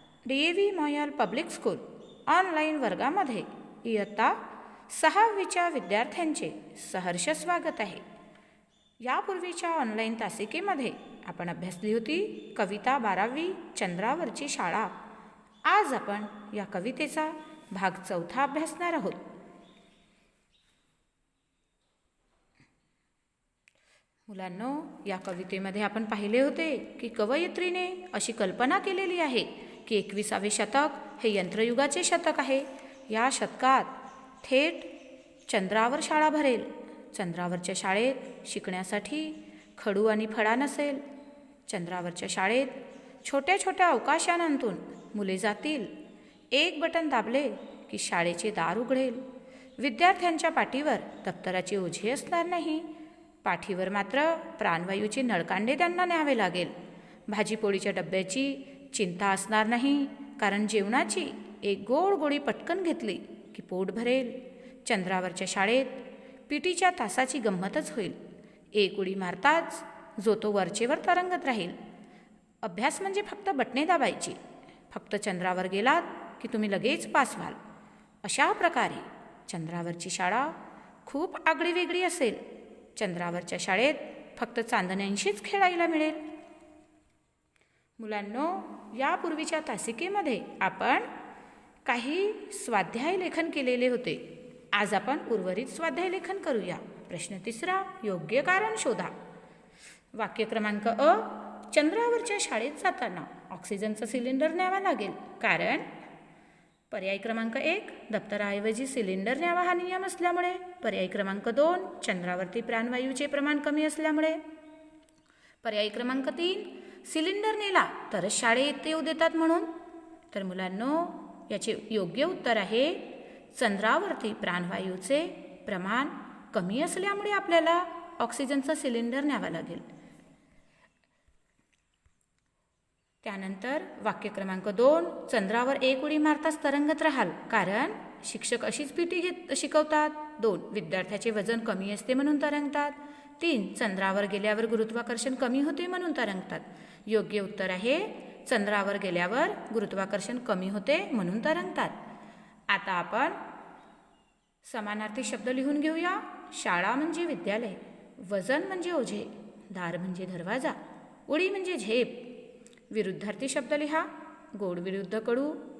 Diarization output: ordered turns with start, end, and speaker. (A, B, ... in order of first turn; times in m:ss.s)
0:00.2-0:08.0 A
0:09.0-0:15.0 A
0:15.6-0:19.3 A
0:24.3-0:34.9 A
0:35.5-0:41.0 A
0:41.7-0:45.9 A
0:46.5-0:49.2 A
0:49.8-0:52.9 A
0:53.4-0:56.7 A
0:57.3-1:08.2 A
1:08.7-1:11.8 A
1:12.6-1:14.4 A
1:14.9-1:17.6 A
1:18.2-1:22.4 A
1:23.0-1:26.2 A
1:28.0-1:31.1 A
1:31.8-1:39.2 A
1:40.2-1:45.9 A
1:46.9-1:54.4 A
1:55.6-1:59.7 A
2:00.3-2:09.8 A
2:13.2-2:32.0 A
2:32.7-2:33.4 A
2:34.6-2:42.4 A
2:42.9-2:45.6 A